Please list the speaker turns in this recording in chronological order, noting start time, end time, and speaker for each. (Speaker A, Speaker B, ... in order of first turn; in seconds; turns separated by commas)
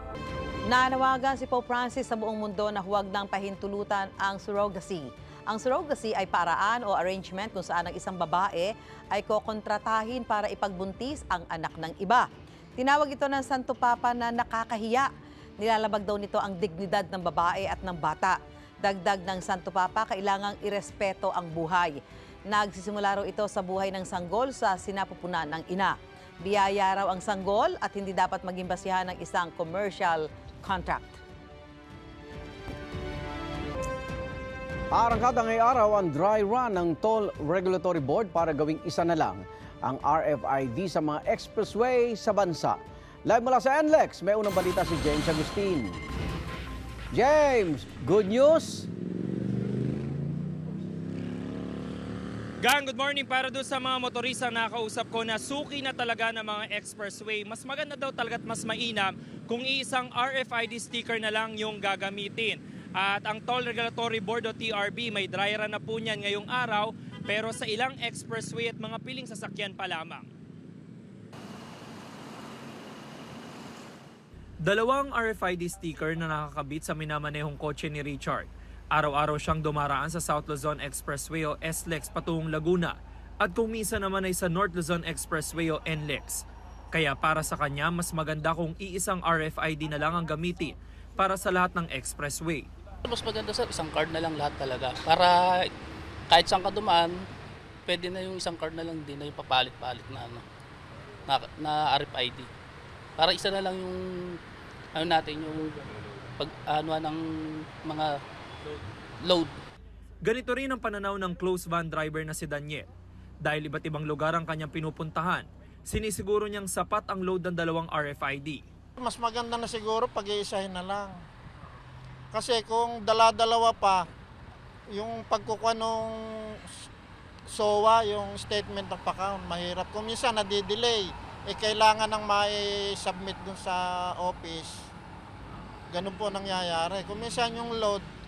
Speaker A: 0.7-12.3, Speaker A: 12.8-31.2, Speaker B: 34.9-46.0, Speaker B: 47.1-48.9, Speaker C: 52.6-70.2, Speaker C: 74.6-92.7, Speaker D: 93.0-95.6, Speaker D: 96.3-97.1, Speaker D: 97.9-100.4, Speaker D: 101.3-102.5, Speaker D: 103.2-104.4, Speaker D: 104.9-105.8, Speaker D: 106.4-107.2, Speaker D: 107.8-108.1, Speaker D: 109.2-109.5, Speaker C: 110.2-112.8, Speaker C: 113.4-118.6, Speaker E: 119.0-121.1, Speaker E: 122.3-124.0, Speaker E: 124.9-126.8, Speaker E: 127.5-134.9, Speaker E: 135.9-138.0